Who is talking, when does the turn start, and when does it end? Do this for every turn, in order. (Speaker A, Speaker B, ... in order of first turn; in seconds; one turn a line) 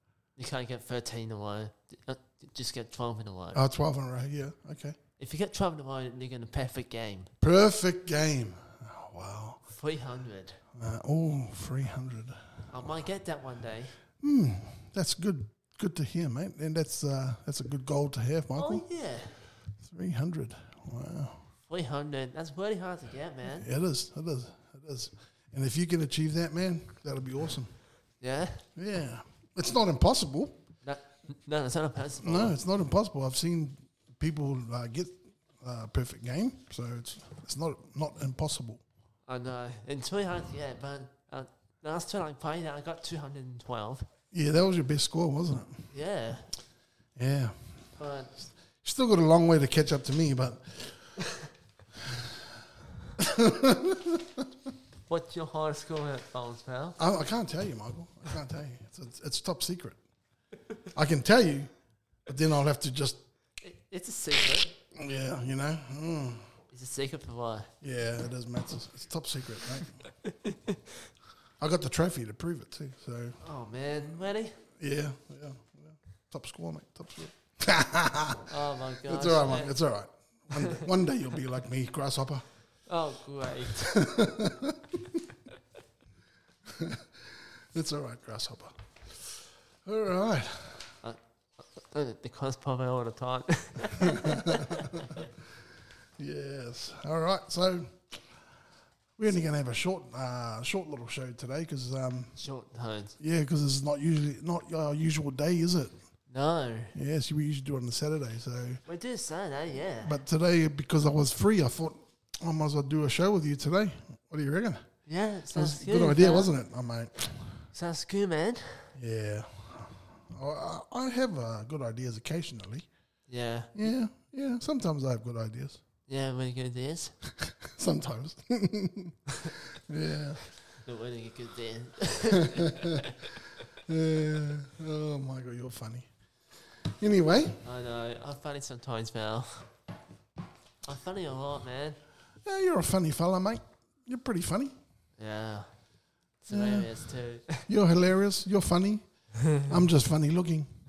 Speaker A: 0.4-3.6
Speaker B: 3.5-5.0
Speaker A: 5.2-7.3
Speaker B: 7.4-9.6
Speaker A: 9.7-10.6
Speaker B: 10.8-12.5
Speaker A: 12.7-13.9
Speaker B: 14.2-18.8
Speaker A: 18.6-19.4
Speaker B: 19.8-21.4
Speaker A: 21.7-23.6
Speaker B: 23.5-27.7
Speaker A: 28.2-28.6
Speaker B: 28.8-30.6
Speaker A: 30.8-32.6
Speaker B: 32.2-38.8
Speaker A: 39.3-44.0
Speaker B: 44.3-45.9
Speaker A: 45.9-46.5
Speaker B: 47.2-47.5
Speaker A: 48.0-48.3
Speaker B: 48.8-51.1
Speaker B: 52.0-52.3
Speaker B: 53.2-54.4
Speaker A: 55.1-57.0
Speaker B: 57.0-60.0
Speaker B: 60.9-61.7
Speaker B: 62.3-63.2
Speaker A: 63.6-64.7
Speaker B: 64.9-66.4
Speaker A: 66.7-67.7
Speaker B: 67.8-70.0
Speaker A: 70.2-70.8
Speaker B: 71.6-73.4
Speaker A: 73.4-74.6
Speaker B: 74.8-82.4
Speaker A: 78.4-79.7
Speaker A: 82.9-84.0
Speaker B: 83.8-85.2
Speaker B: 86.7-88.8
Speaker B: 89.8-90.9
Speaker A: 91.0-95.2
Speaker B: 94.0-95.2
Speaker B: 96.2-98.0
Speaker B: 99.2-102.4
Speaker A: 102.3-103.2
Speaker B: 103.2-105.9
Speaker A: 106.3-106.9
Speaker B: 106.9-108.8
Speaker A: 108.9-110.2
Speaker B: 110.0-114.8
Speaker A: 115.1-116.5
Speaker B: 115.5-117.6
Speaker A: 117.7-118.9
Speaker B: 119.0-122.9
Speaker A: 123.3-123.9
Speaker B: 123.7-125.8
Speaker A: 126.1-127.1
Speaker B: 127.4-130.4
Speaker A: 130.8-133.3
Speaker B: 133.7-136.1
Speaker B: 136.8-137.6
Speaker A: 137.6-139.6
Speaker A: 140.8-142.0
Speaker B: 142.4-144.7
Speaker A: 145.2-145.7
Speaker A: 146.4-147.7
Speaker B: 146.5-146.9
Speaker B: 147.7-150.7